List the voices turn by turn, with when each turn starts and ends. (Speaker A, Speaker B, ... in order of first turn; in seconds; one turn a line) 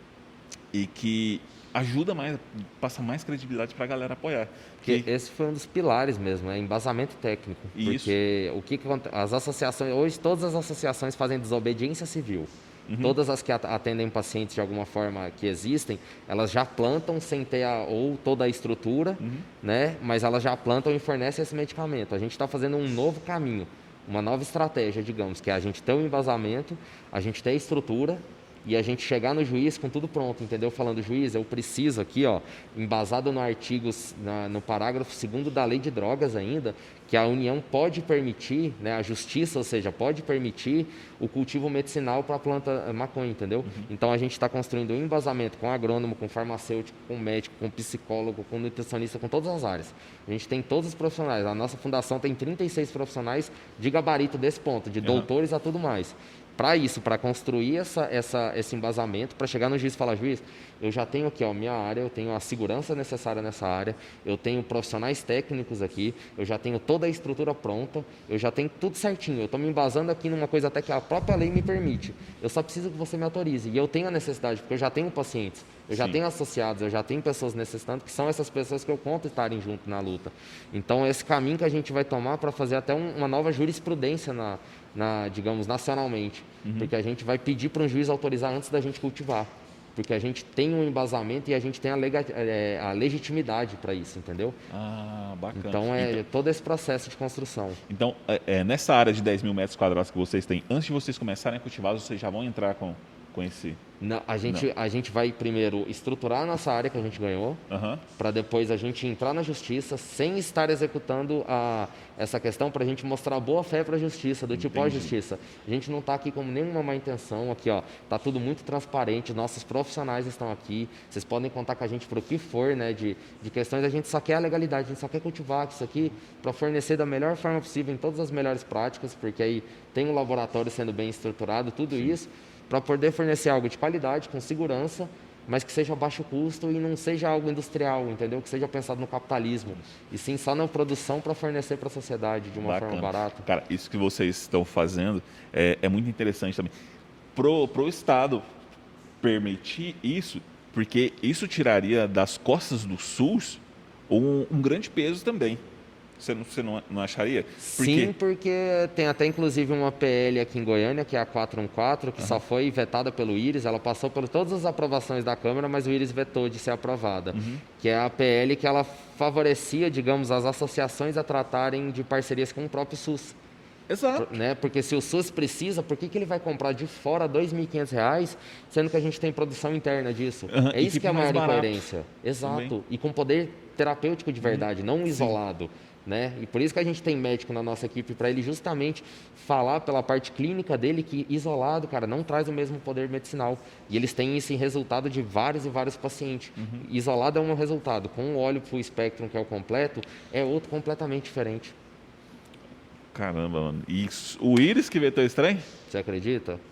Speaker A: 0.7-5.1
Speaker B: 4.8-94.6
Speaker A: 7.7-8.2
Speaker A: 12.9-13.2
Speaker A: 19.2-19.5
Speaker A: 55.0-55.3
Speaker A: 75.9-76.2
Speaker A: 86.6-86.9
Speaker A: 94.7-96.2
Speaker B: 95.5-97.8
Speaker A: 97.9-103.8
Speaker B: 104.0-107.6
Speaker A: 107.7-108.0
Speaker B: 108.2-143.5
Speaker A: 114.5-115.1
Speaker A: 142.5-146.7
Speaker A: 147.3-148.4
Speaker A: 149.2-155.6
Speaker A: 156.2-158.1
Speaker B: 157.6-173.4
Speaker A: 167.3-167.6
Speaker A: 173.9-174.4
Speaker B: 174.2-201.8
Speaker A: 180.5-181.8
Speaker A: 182.4-182.7
Speaker A: 184.4-185.3
Speaker A: 196.6-196.8
Speaker A: 203.1-205.7
Speaker B: 205.9-206.6